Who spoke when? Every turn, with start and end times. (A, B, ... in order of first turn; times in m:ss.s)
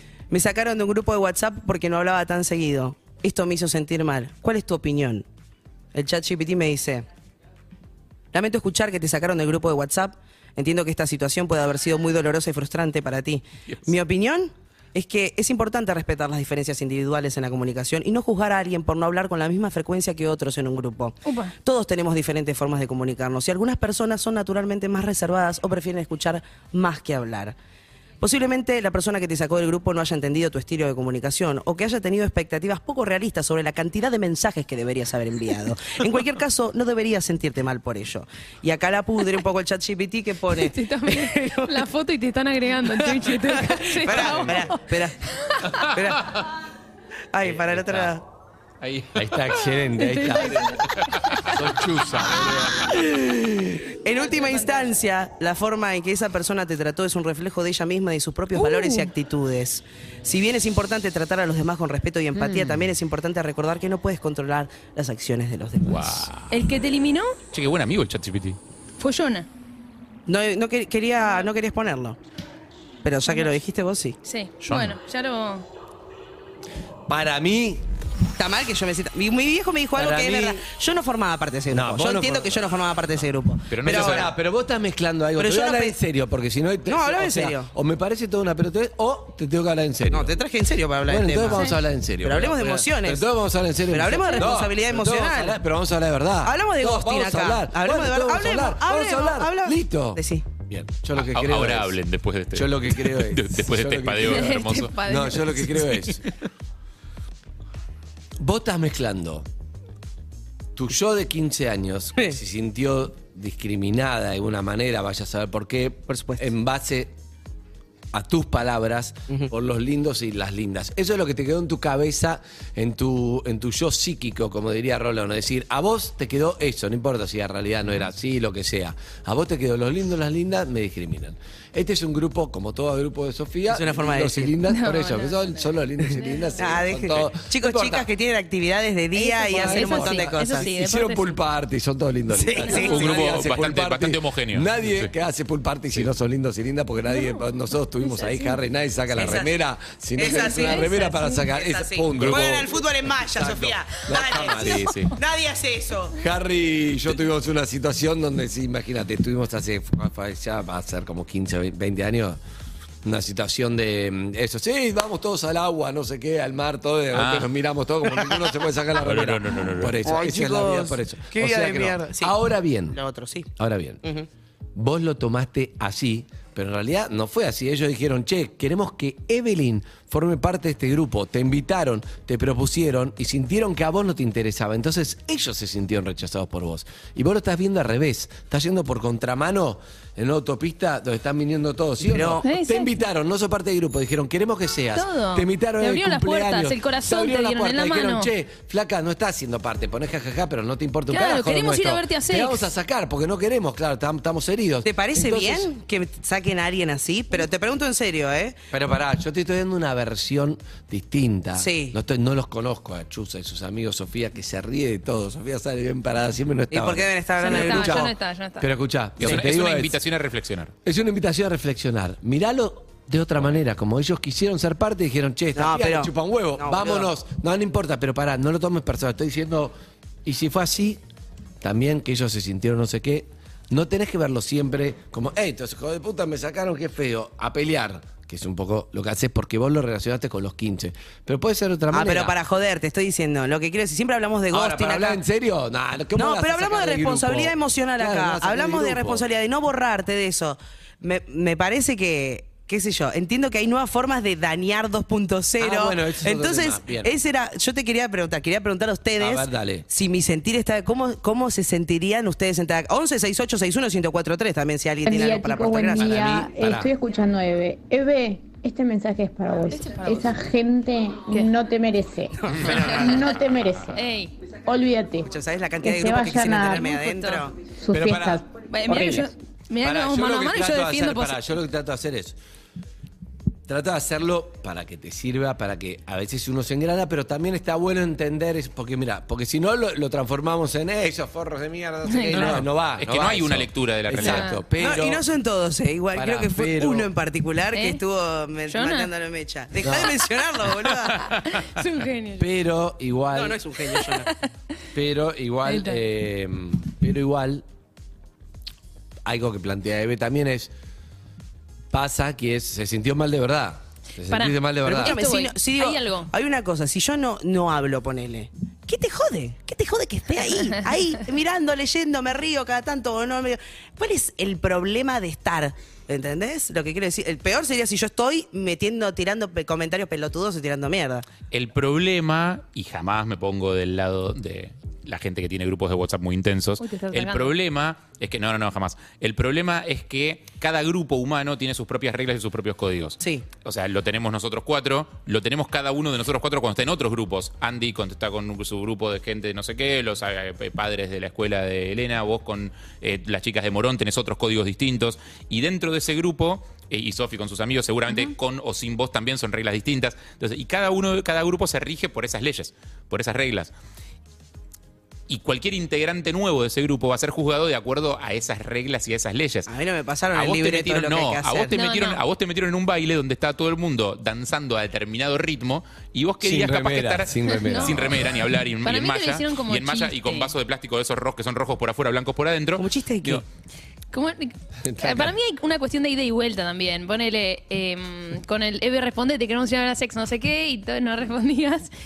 0:00.3-0:05.2 A
0:05.9-0:07.1 A
0:08.3-0:27.5 A
0:21.2-0:21.5 B
0:28.2-0:41.8 A
0:40.5-0:45.6 B
0:43.0-0:45.2 A
0:45.7-0:46.4 C
0:45.8-0:46.4 A
0:47.3-0:48.2 A
0:47.4-0:48.1 C
0:48.8-0:49.8 C
0:49.1-0:50.9 D
0:50.0-0:50.8 B
0:50.9-0:52.9 C
0:51.4-0:53.0 D
0:52.9-1:06.3 A
0:54.2-0:54.9 B
0:58.5-0:59.1 B
1:02.4-1:02.8 C
1:05.8-1:06.5 C
1:06.5-1:07.4 B
1:07.5-1:08.6 C
1:09.0-1:09.5 B
1:10.3-1:12.2 A
1:13.0-1:14.2 A
1:14.2-1:15.6 B
1:14.6-1:15.0 C
1:17.1-1:17.8 D
1:18.4-1:24.3 A
1:19.9-1:20.6 D
1:21.7-1:22.8 D
1:23.7-1:24.3 C
1:23.8-1:30.3 D
1:25.4-1:26.0 A
1:26.8-1:27.7 A
1:30.1-1:33.2 A
1:31.0-1:42.0 D
1:33.9-1:35.6 A
1:36.4-1:40.4 A
1:41.1-1:44.9 C
1:42.5-1:46.3 D
1:44.3-1:45.9 B
1:48.4-1:49.4 D
1:50.7-1:57.1 D
1:56.1-1:56.5 A
1:58.1-2:18.1 D
2:13.7-2:14.5 A
2:14.6-2:16.6 B
2:16.6-2:20.7 A
2:19.1-2:21.4 B
2:19.5-2:35.1 D
2:22.3-2:23.2 A
2:22.6-2:23.0 B
2:22.8-2:25.1 C
2:27.1-2:27.4 B
2:28.0-2:28.6 B
2:29.1-2:29.6 A
2:30.2-2:36.2 A
2:30.2-2:31.4 B
2:32.2-2:32.5 C
2:34.6-2:35.1 C
2:36.2-2:42.4 D
2:43.0-2:53.0 D
2:47.1-2:47.5 C
2:49.0-2:50.0 C
2:50.0-2:52.4 A
2:52.9-2:53.5 A
2:53.6-2:54.0 D
2:54.7-3:25.7 D
3:12.0-3:12.4 A
3:12.4-3:12.9 B
3:14.9-3:18.3 B
3:21.1-3:22.7 B
3:24.8-3:28.6 A
3:28.7-3:40.0 D
3:31.6-3:32.0 A
3:36.7-3:38.1 A
3:37.4-3:38.7 B
3:39.2-3:40.7 C
3:40.8-3:49.7 D
3:45.5-3:47.1 A
3:50.2-3:51.0 D
3:51.6-4:02.3 D
4:01.9-4:05.2 A
4:04.5-4:09.2 D
4:06.2-4:26.3 A
4:15.6-4:17.2 D
4:19.2-4:19.8 D
4:25.0-4:34.0 E
4:25.9-4:26.9 D
4:29.7-4:30.4 B
4:32.4-4:33.1 A
4:32.6-4:33.2 B
4:33.9-4:34.3 B
4:34.6-4:35.3 E
4:35.2-4:37.5 A
4:35.8-4:36.9 E
4:36.7-4:37.4 B
4:37.8-4:39.3 E
4:37.9-4:39.2 D
4:38.6-4:41.5 B
4:39.8-4:42.4 D
4:43.7-4:55.2 D
4:52.0-4:52.6 B
4:52.3-4:54.5 C
4:54.2-4:54.6 B
4:54.8-5:01.3 A
4:56.1-4:57.1 D
4:57.7-4:58.0 B
4:58.7-4:59.1 B
4:59.8-5:00.2 D
5:01.2-5:02.5 B
5:02.4-5:03.6 D
5:03.3-5:04.3 A
5:04.1-5:04.4 B
5:04.9-5:07.6 D
5:05.6-5:06.0 B
5:09.2-5:10.7 D
5:11.9-5:15.2 D
5:14.3-5:16.3 B
5:14.8-5:31.3 A
5:31.5-6:03.7 C
5:36.8-5:37.5 B
6:05.3-6:09.7 C
6:09.7-6:11.7 A
6:10.3-6:23.4 C
6:11.7-6:12.2 B
6:16.4-6:18.4 D
6:17.5-6:18.2 B
6:18.8-6:20.5 B
6:22.8-6:23.4 A
6:24.1-6:31.9 B
6:24.8-6:25.3 D